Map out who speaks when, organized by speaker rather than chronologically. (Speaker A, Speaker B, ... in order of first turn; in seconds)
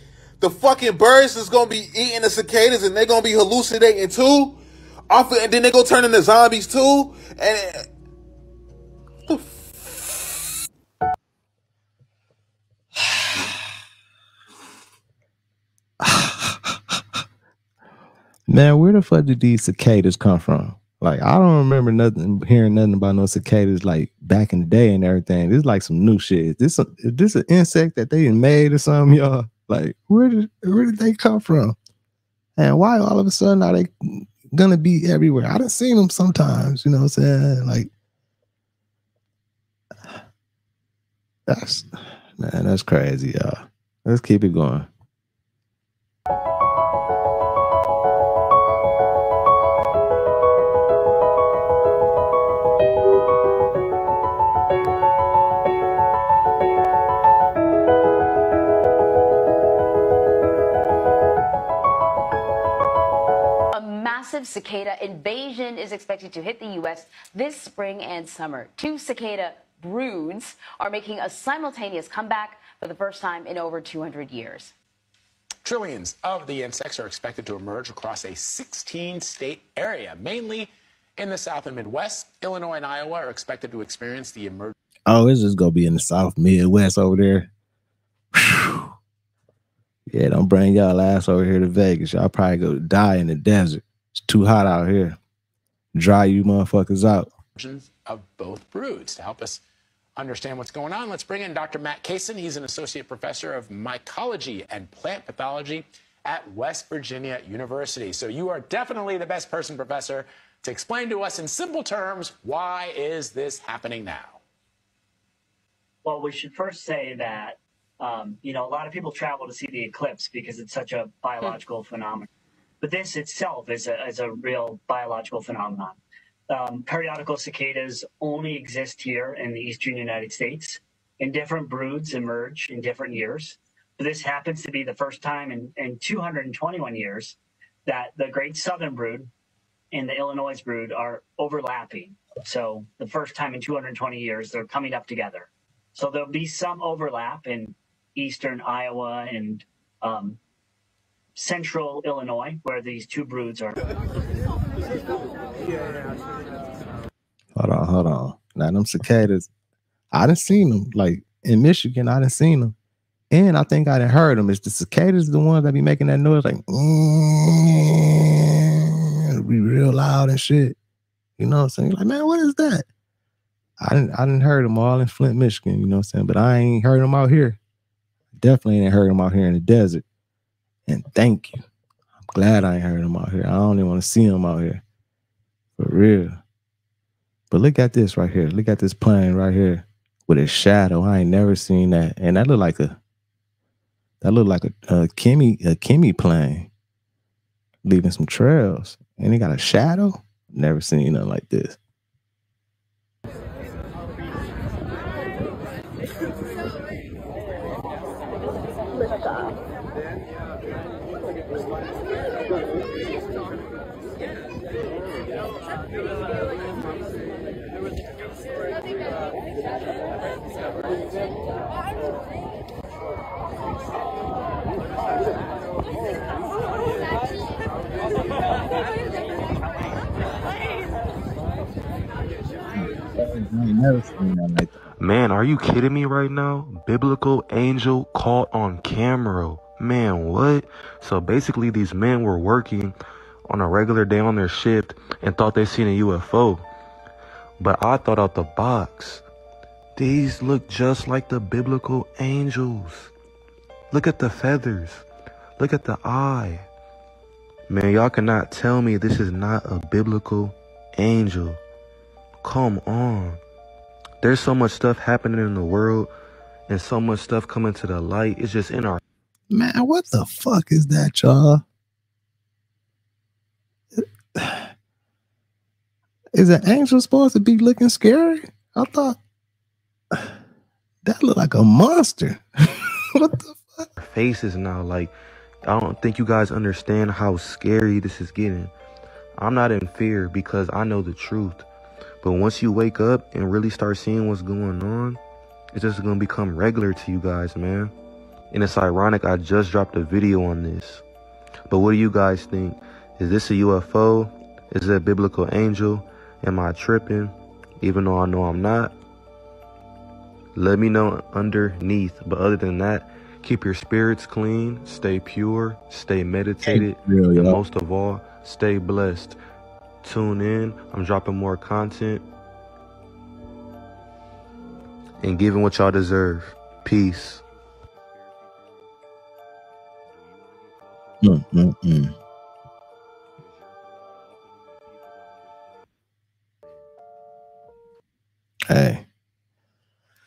Speaker A: 0.4-7.9, 9.3-10.1
Speaker B: 16.0-17.0, 18.5-31.8, 32.6-37.9, 41.5-44.9, 85.1-87.5, 88.3-88.9, 90.1-95.2, 96.0-97.3, 157.6-159.5, 160.1-162.8, 163.3-170.8, 171.4-172.8, 173.8-177.6, 178.4-180.0, 180.9-181.6, 182.2-184.8, 185.8-186.4, 187.5-193.0, 194.2-196.7, 197.8-201.8, 232.7-234.7, 269.5-271.6, 274.0-274.7, 276.3-279.2, 281.0-283.9, 316.6-317.6, 331.2-332.1, 338.7-339.0
Speaker C: 63.7-74.7
Speaker D: 75.6-84.8, 97.6-99.6, 100.2-114.4, 327.5-328.9, 330.0-331.4, 333.4-335.9
Speaker E: 116.0-122.3, 122.8-126.0, 126.5-139.3, 139.9-150.4, 151.4-153.8
Speaker F: 235.0-243.0, 243.5-246.7, 247.6-249.2, 250.0-253.1, 253.9-255.1, 255.6-256.7, 257.7-261.6, 262.4-263.4, 264.2-266.1, 266.7-269.0, 284.0-288.7, 289.4-291.7, 292.2-295.2, 295.7-297.9, 298.5-301.0, 301.7-308.9, 310.6-319.4, 320.0-322.2, 325.2-327.4